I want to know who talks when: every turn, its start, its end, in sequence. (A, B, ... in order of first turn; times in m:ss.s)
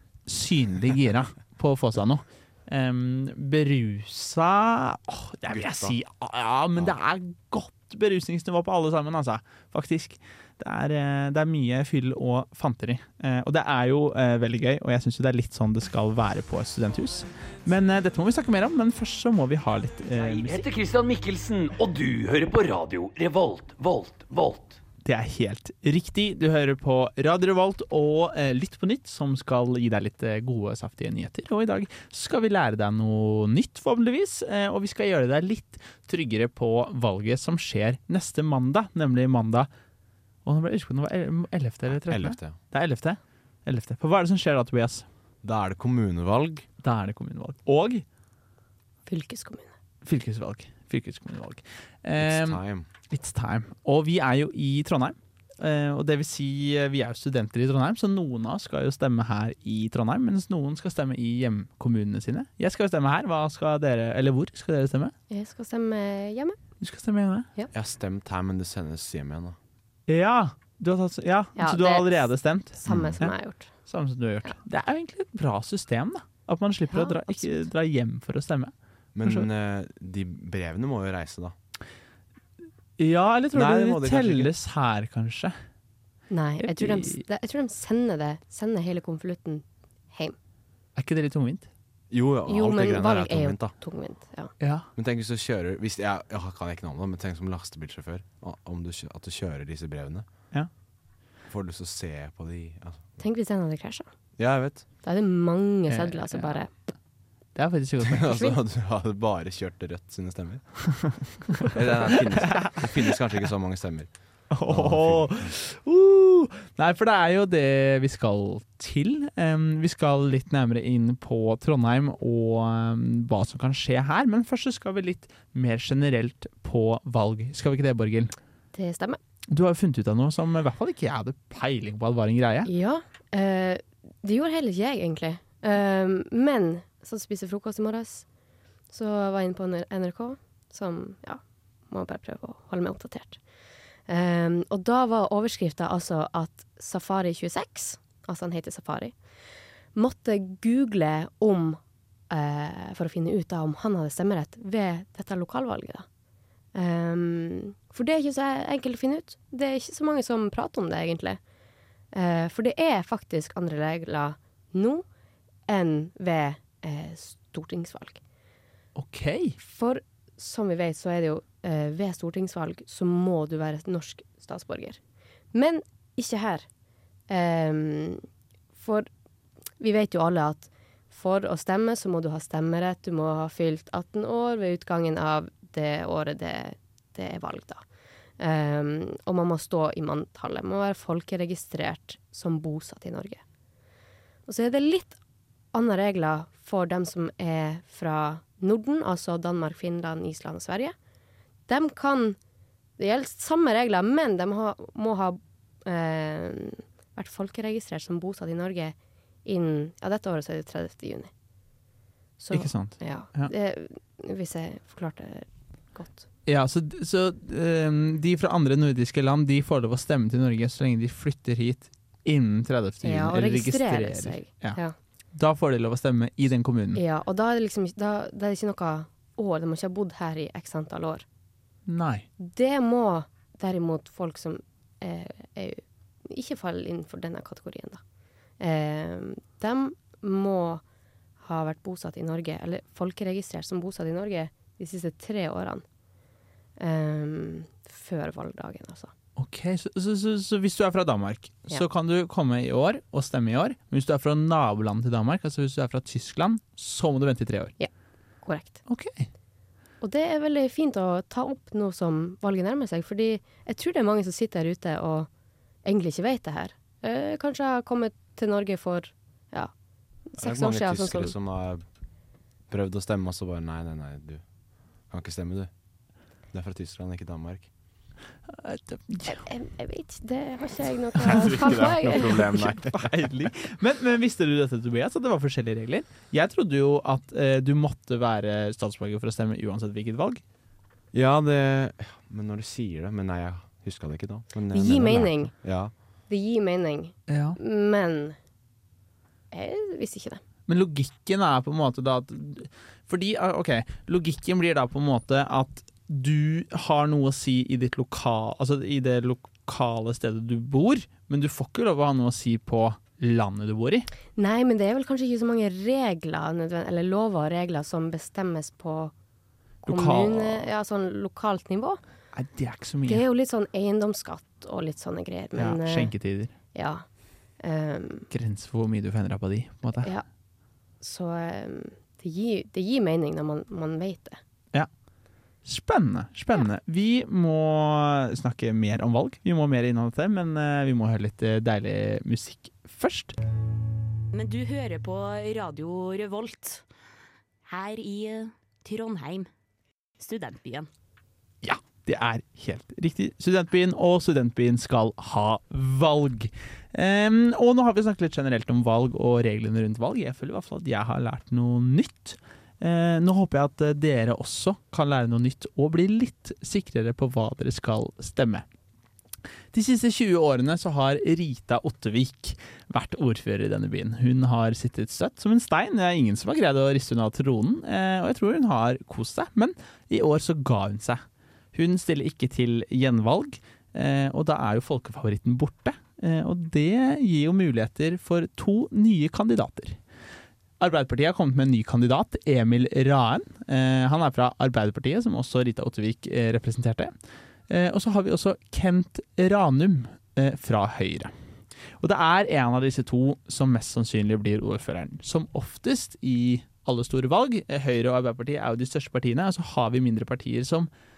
0:00.3-0:20.6 A
0:05.5-0:06.0 B
0:20.1-0:24.8 C
0:25.0-0:39.7 A
0:40.4-0:45.0 A
0:42.0-0:42.6 B
0:45.4-0:46.6 B
0:46.8-0:48.0 A
0:49.1-0:49.7 D
0:50.0-1:05.1 A
0:52.2-0:52.9 B
1:05.3-1:06.6 D
1:06.8-1:07.5 A
1:07.7-1:09.6 B
1:10.1-1:13.3 A
1:11.6-1:13.7 D
1:12.9-1:13.2 B
1:13.8-1:18.7 A
1:16.9-1:17.6 D
1:19.1-1:21.5 B
1:23.0-1:25.5 A
1:23.5-1:24.5 B
1:26.3-1:30.4 D
1:26.6-1:27.2 A
1:31.0-1:31.7 A
1:32.1-1:33.7 B
1:32.5-1:34.5 D
1:34.6-1:34.8 A
1:35.0-1:40.2 B
1:41.5-1:43.0 B
1:43.2-1:44.1 D
1:44.4-1:44.8 B
1:45.0-1:46.7 D
1:45.9-1:46.5 A
1:47.5-1:48.4 A
1:48.0-1:50.6 B
1:51.6-1:54.1 B
1:51.6-1:52.9 A
1:54.5-2:08.3 A
1:54.6-1:55.5 B
2:08.7-2:09.2 D
2:09.5-2:12.7 A
2:12.7-2:18.2 D
2:18.9-2:23.4 D
2:24.1-2:29.1 D
2:29.9-2:36.0 D
2:36.7-2:41.4 D
2:42.1-2:45.0 D
2:45.7-2:48.2 D
2:49.0-2:49.6 A
2:49.6-2:55.0 D
2:55.5-2:56.6 D
2:57.3-2:58.2 D
2:58.8-2:59.1 D
2:59.8-3:07.8 D
3:08.4-3:13.4 D
3:14.4-3:15.2 D
3:15.7-3:20.9 D
3:21.7-3:22.4 D
3:23.0-3:31.3 D
3:32.4-3:36.2 D
3:32.5-3:33.5 A
3:36.5-3:44.8 A
3:43.0-3:44.9 D
3:45.3-3:47.0 A
3:46.9-3:51.2 D
3:51.9-3:52.2 A
3:52.4-3:58.0 D
3:58.6-4:00.8 D
4:01.4-4:05.8 D
4:06.8-4:09.1 D
4:09.4-4:17.7 A
4:18.4-4:18.8 D
4:18.9-4:19.3 A
4:20.0-4:25.3 D
4:25.8-4:29.7 D
4:30.3-4:31.3 D
4:30.4-4:31.8 B
4:32.7-4:34.4 B
4:35.1-4:35.7 B
4:36.5-4:37.7 B
4:38.5-4:39.4 A
4:39.3-4:42.5 D
4:41.2-4:50.4 A
4:41.3-4:43.3 B
4:51.1-4:55.9 B
4:54.7-4:55.5 D
4:56.3-4:58.4 D
4:57.3-4:57.6 A
4:59.5-5:00.4 D
5:00.7-5:14.1 A
5:14.4-5:19.1 D
5:19.8-5:22.0 D
5:19.8-5:20.6 A
5:22.3-5:23.2 A
5:23.0-5:26.1 D
5:25.6-5:26.5 A
5:26.7-5:27.0 D
5:27.6-5:28.3 D
5:28.3-5:30.1 A
5:31.0-5:34.4 D
5:35.6-5:43.4 A
5:44.3-5:46.8 E
5:47.6-5:49.5 E
5:50.2-5:50.9 E
5:51.6-6:08.6 A
6:09.7-6:21.2 A
6:21.7-6:30.0 A
6:30.8-6:37.1 A
6:37.7-6:41.3 A
6:42.0-6:50.9 A